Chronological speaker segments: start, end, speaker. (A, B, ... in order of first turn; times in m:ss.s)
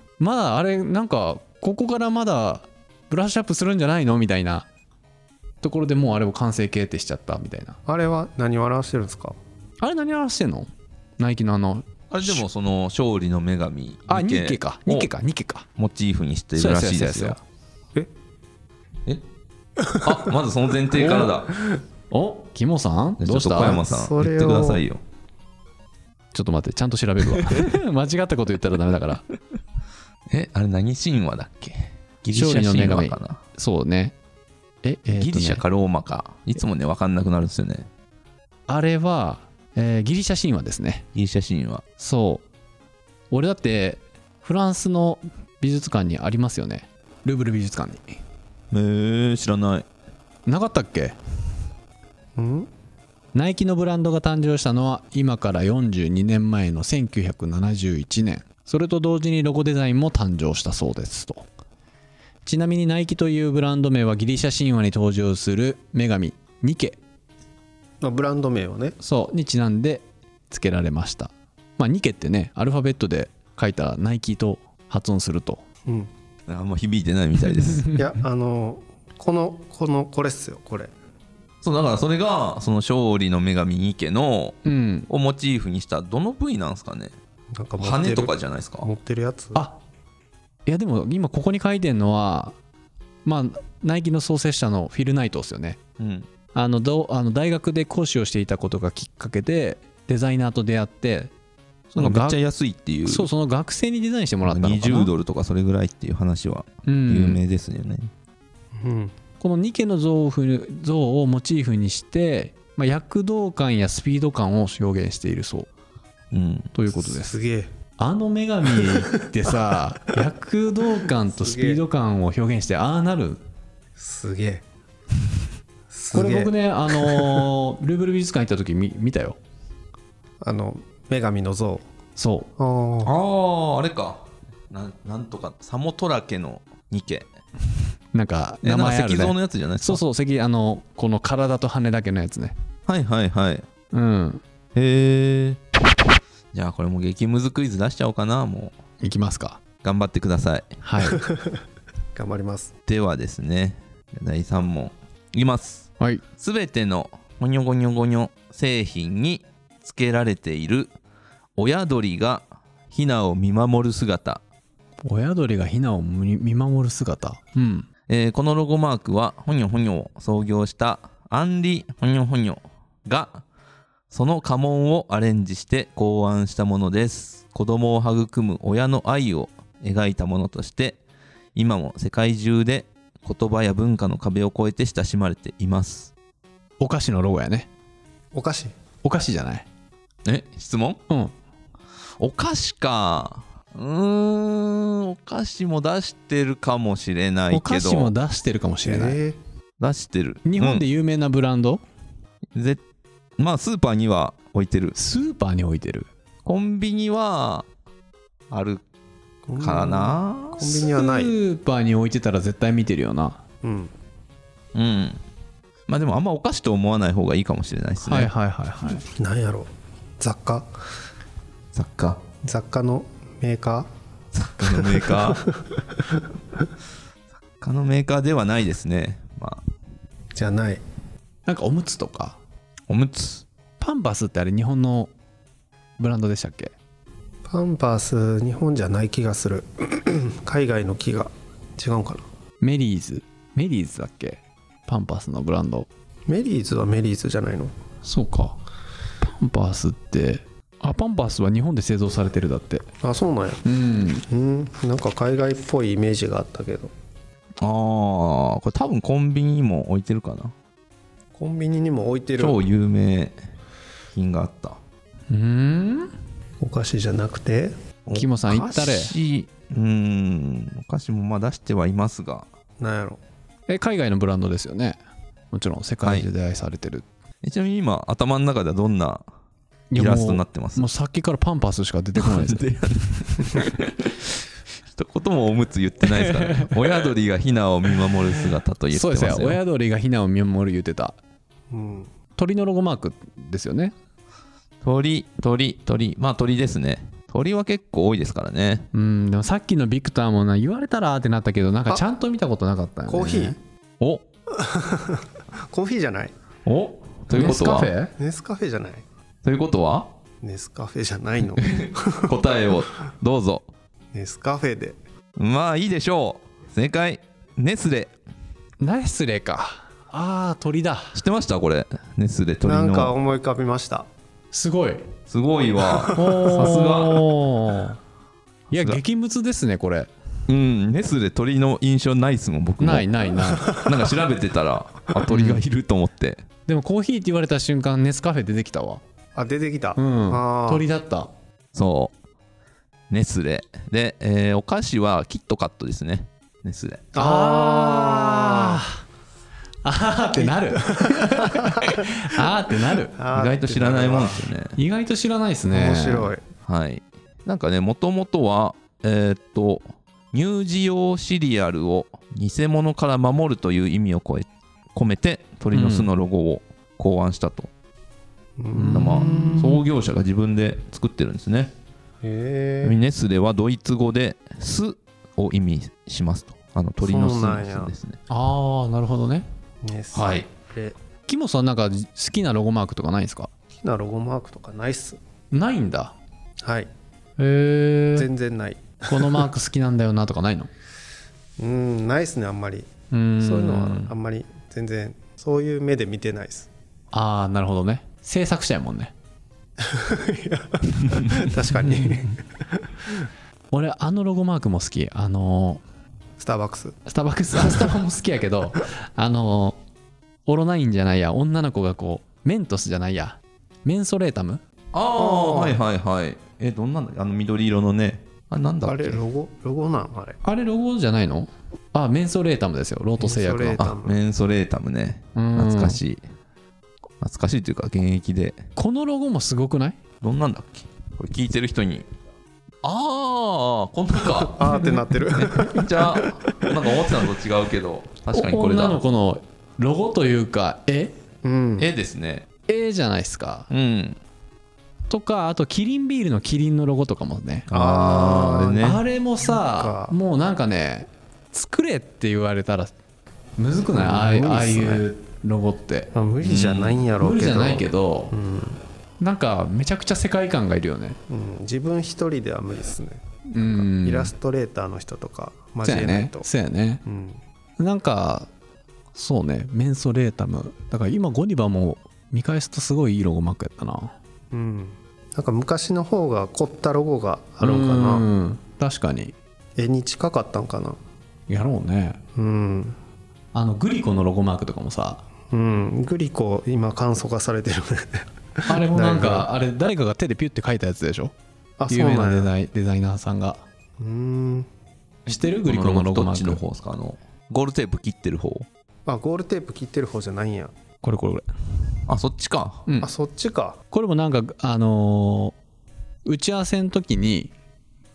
0:00.2-0:04.7 A
0:05.6-0:07.8 A
0:07.8-0:09.4 B
0:09.8-0:12.4 A
0:12.1-0:15.1 C
0:14.1-0:15.7 A
0:15.8-0:17.4 C
0:16.6-0:17.4 A
0:19.9-0:21.5 C
0:20.9-0:21.3 A
0:22.1-0:23.8 A
0:23.2-0:25.0 C
0:23.6-0:24.8 B
0:26.3-0:29.2 A
0:30.3-0:33.4 C
0:32.3-0:34.1 A
0:34.8-0:35.6 A
0:35.1-0:37.9 C
0:38.7-0:41.0 A
0:41.1-0:41.8 C
0:42.0-0:42.4 A
0:43.3-0:48.2 A
0:48.7-0:49.8 C
0:50.5-0:51.2 A
0:52.4-0:52.7 B
0:53.3-1:01.5 A
1:02.4-1:07.0 A
1:08.0-1:09.0 B
1:09.0-1:15.6 A
1:15.8-1:16.1 B
1:16.5-1:17.9 C
1:17.9-1:20.9 B
1:21.6-1:27.1 C
1:24.6-1:25.1 A
1:27.5-1:29.6 B
1:27.8-1:28.9 C
1:30.6-1:32.6 A
1:33.2-1:35.8 A
1:36.0-1:36.3 C
1:36.5-1:41.3 A
1:41.9-1:42.4 A
1:42.0-1:43.3 C
1:43.0-1:45.1 A
1:44.4-1:48.1 C
1:46.8-1:47.4 A
1:48.8-1:49.2 B
1:49.4-1:55.7 A
1:56.3-1:56.7 C
1:56.7-1:57.4 A
1:57.1-1:57.7 B
1:58.0-2:03.4 A
2:01.3-2:01.8 B
2:04.0-2:04.6 B
2:05.9-2:07.5 B
2:06.1-2:09.4 A
2:10.4-2:11.8 B
2:12.2-2:12.5 A
2:12.6-2:13.1 B
2:13.0-2:17.3 C
2:18.1-2:22.5 A
2:18.6-2:20.0 C
2:22.9-2:23.7 C
2:23.9-2:24.4 A
2:24.7-2:25.6 C
2:26.5-2:28.7 C
2:29.0-2:29.6 A
2:29.8-2:30.8 C
2:30.8-2:31.2 A
2:31.2-2:31.6 B
2:32.1-2:32.7 B
2:32.9-2:40.9 C
2:41.6-2:44.4 C
2:45.0-2:47.9 A
2:48.1-2:53.4 C
2:54.1-3:01.0 C
3:01.5-3:06.1 C
3:06.8-3:07.7 A
3:08.3-3:08.7 B
3:09.0-3:09.6 A
3:10.2-3:11.0 C
3:12.2-3:18.1 C
3:17.5-3:19.2 A
3:18.8-3:19.4 B
3:19.8-3:20.8 C
3:20.4-3:21.8 A
3:22.5-3:22.8 C
3:23.4-3:24.9 C
3:24.9-3:26.1 A
3:26.4-3:27.7 C
3:28.5-3:28.8 C
3:29.5-3:31.3 B
3:29.6-3:30.7 C
3:30.8-3:33.4 A
3:33.6-3:33.9 B
3:34.7-3:35.2 C
3:35.9-3:38.3 C
3:38.0-3:39.0 A
3:39.0-3:40.7 B
3:41.7-3:42.2 C
3:42.4-3:43.9 B
3:44.3-3:45.5 C
3:44.6-3:46.2 B
3:47.6-3:49.6 C
3:50.3-3:50.8 B
3:51.4-3:52.4 A
3:52.9-3:53.4 C
3:53.8-3:55.1 A
3:56.0-3:56.7 A
3:57.4-4:02.2 B
4:02.6-4:05.9 A
4:06.3-4:07.7 B
4:08.0-4:08.6 A
4:09.2-4:12.8 A
4:13.0-4:13.6 B
4:13.6-4:14.2 A
4:14.3-4:16.9 B
4:17.6-4:20.5 C
4:21.3-4:22.6 B
4:22.4-4:23.4 C
4:24.1-4:24.8 C
4:25.3-4:26.1 A
4:26.6-4:27.7 B
4:28.0-4:32.5 C
4:28.1-4:29.1 A
4:32.8-4:33.2 B
4:33.7-4:35.0 A
4:35.5-4:37.0 A
4:37.4-4:39.2 C
4:39.9-4:42.6 A
4:40.0-4:40.9 C
4:42.2-4:44.3 C
4:44.9-4:49.6 C
4:46.0-4:47.0 A
4:47.9-4:51.2 A
4:51.7-4:52.1 B
4:52.4-4:53.9 A
4:54.8-4:58.9 C
4:58.9-5:03.6 A
5:03.1-5:03.6 B
5:04.5-5:06.3 B
5:06.6-5:07.9 C
5:07.3-5:08.1 A
5:08.2-5:09.0 B
5:09.4-5:10.1 C
5:10.4-5:12.4 B
5:11.7-5:13.6 C
5:14.1-5:15.0 B
5:15.4-5:18.1 C
5:18.8-5:21.2 A
5:21.1-5:23.1 C
5:22.6-5:24.1 B
5:24.5-5:25.1 A
5:25.3-5:27.3 C
5:25.9-5:26.3 B
5:26.1-5:28.0 A
5:28.7-5:30.1 A
5:28.7-5:29.0 C
5:30.5-5:33.1 C
5:32.8-5:33.8 A
5:33.6-5:34.1 B
5:33.6-5:36.4 C
5:35.3-5:35.6 A
5:36.7-5:39.0 A
5:39.3-5:40.8 B
5:40.0-5:41.3 A
5:41.7-5:42.1 C
5:43.1-5:47.1 C
5:47.1-5:48.8 B
5:47.2-5:49.0 A
5:49.8-5:53.2 A
5:50.4-5:52.1 B
5:53.1-5:54.5 B
5:53.3-5:54.8 C
5:54.8-5:56.3 A
5:55.7-5:56.4 B
5:56.6-6:07.7 C
6:05.7-6:06.1 A
6:08.6-6:09.8 B
6:08.7-6:09.8 A
6:08.9-6:11.7 C
6:12.2-6:13.0 B
6:12.8-6:18.2 C
6:17.0-6:17.9 B
6:18.3-6:19.5 A
6:19.8-6:20.9 B
6:20.1-6:20.4 C
6:21.3-6:23.5 A
6:23.7-6:25.2 B
6:25.5-6:26.1 A
6:26.6-6:26.9 B
6:27.4-6:28.3 A
6:28.1-6:29.5 B
6:29.1-6:30.7 A
6:31.6-6:36.7 B
6:33.1-6:34.1 A
6:37.1-6:39.1 A
6:39.8-6:43.3 B
6:41.8-6:42.2 A
6:43.7-6:45.8 A
6:46.4-6:47.0 B
6:47.0-6:49.8 A
6:50.4-6:54.6 A
6:54.9-6:59.2 C
6:55.1-6:55.8 B
6:58.8-7:00.4 B
7:00.4-7:03.9 A
7:03.2-7:04.2 B
7:03.8-7:06.2 C
7:05.4-7:06.0 A
7:07.2-7:08.6 C
7:08.8-7:10.0 A
7:10.2-7:12.1 C
7:12.8-7:14.8 C
7:14.2-7:16.3 B
7:15.3-7:19.0 C
7:18.3-7:21.2 A
7:21.4-7:21.9 B
7:21.8-7:22.4 C
7:22.7-7:23.7 A
7:23.7-7:24.2 C
7:25.1-7:27.8 A
7:27.7-7:30.2 B
7:27.7-7:29.0 C
7:28.8-7:32.9 A
7:33.6-7:36.1 A
7:33.9-7:35.0 B
7:36.1-7:38.8 B
7:36.4-7:37.0 C
7:37.2-7:38.4 A
7:39.2-7:41.2 A
7:41.3-7:46.5 B
7:43.5-7:44.3 A
7:45.8-7:47.0 A
7:47.0-7:47.4 B
7:47.8-7:48.5 A
7:49.1-7:54.1 A
7:54.5-7:58.3 B
7:57.6-7:59.3 A
7:59.8-8:01.0 B
8:01.5-8:02.2 A
8:02.3-8:03.0 B
8:03.5-8:05.2 A
8:05.5-8:09.5 B
8:08.6-8:11.3 A
8:11.8-8:12.5 B
8:11.9-8:13.6 A
8:14.0-8:14.7 B
8:15.3-8:16.6 A
8:15.3-8:18.7 C
8:19.0-8:20.7 B
8:21.0-8:21.4 A
8:22.1-8:22.8 C
8:23.0-8:23.8 B
8:23.9-8:25.6 A
8:26.2-8:27.5 A